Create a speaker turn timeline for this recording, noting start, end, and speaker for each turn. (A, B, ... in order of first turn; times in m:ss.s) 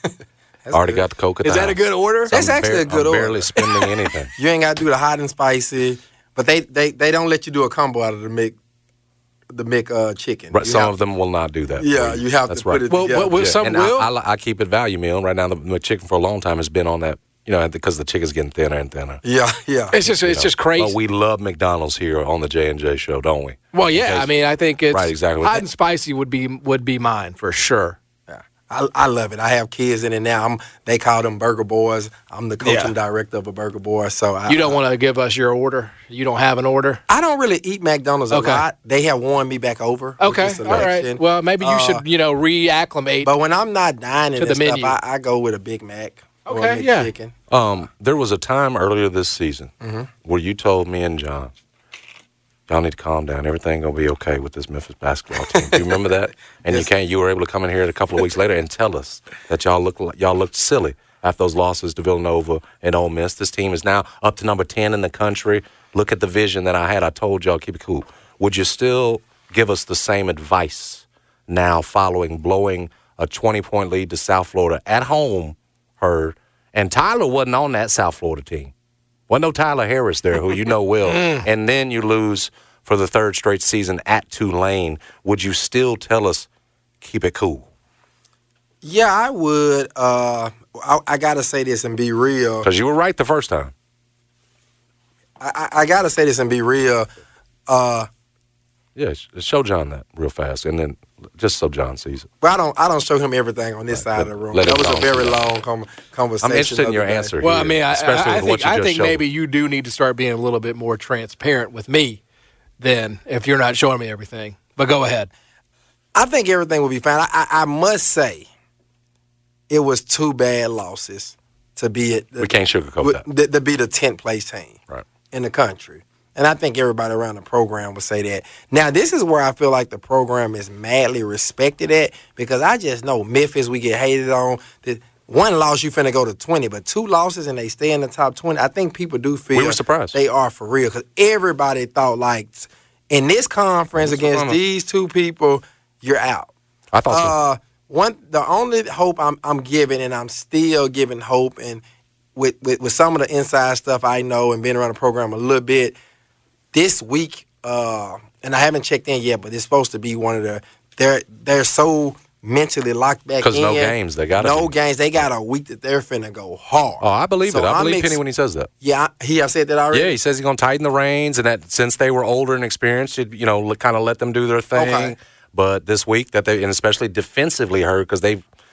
0:00.7-0:01.0 A
0:00.7-0:01.8 B
0:01.4-0:02.4 C
0:02.3-0:03.6 A
0:02.3-0:04.3 B
0:04.4-0:08.6 A
0:09.5-0:10.9 A
0:10.5-0:12.8 B
0:11.8-0:13.5 A
0:12.9-0:14.1 C
0:13.4-0:19.2 B
0:19.2-0:20.0 A
0:19.9-0:21.0 C
0:20.2-0:24.3 B
0:23.7-0:28.0 C
0:24.9-0:25.6 B
0:28.3-0:34.8 A
0:32.6-0:32.9 C
0:34.5-0:37.0 C
0:37.1-0:42.0 A
0:38.3-0:38.6 C
0:40.2-0:43.3 C
0:43.2-0:47.4 A
0:44.4-0:45.0 C
0:46.5-0:47.1 C
0:47.5-0:49.7 B
0:49.8-0:50.1 A
0:50.2-0:51.5 B
0:52.7-1:18.7 B
0:55.5-0:56.0 A
1:19.3-1:26.5 B
1:21.1-1:21.4 C
1:27.0-1:27.7 B
1:28.8-1:32.7 A
1:32.6-1:33.7 B
1:35.4-1:37.1 A
1:37.7-1:38.1 A
1:39.0-1:42.3 B
1:42.4-1:47.4 A
1:43.9-1:45.5 B
1:46.4-1:49.2 B
1:47.4-1:52.2 C
1:52.8-1:55.3 C
1:56.2-1:58.5 A
1:59.7-2:04.8 A
2:02.4-2:03.2 B
2:05.3-2:26.5 A
2:19.5-2:20.2 B
2:24.0-2:24.6 B
2:26.9-2:27.4 B
2:27.1-2:31.8 A
2:32.4-2:36.0 A
2:36.7-2:48.2 A
2:43.4-2:45.2 B
2:47.0-2:48.7 B
2:48.8-2:50.2 A
2:49.9-2:58.4 B
2:54.8-2:55.2 A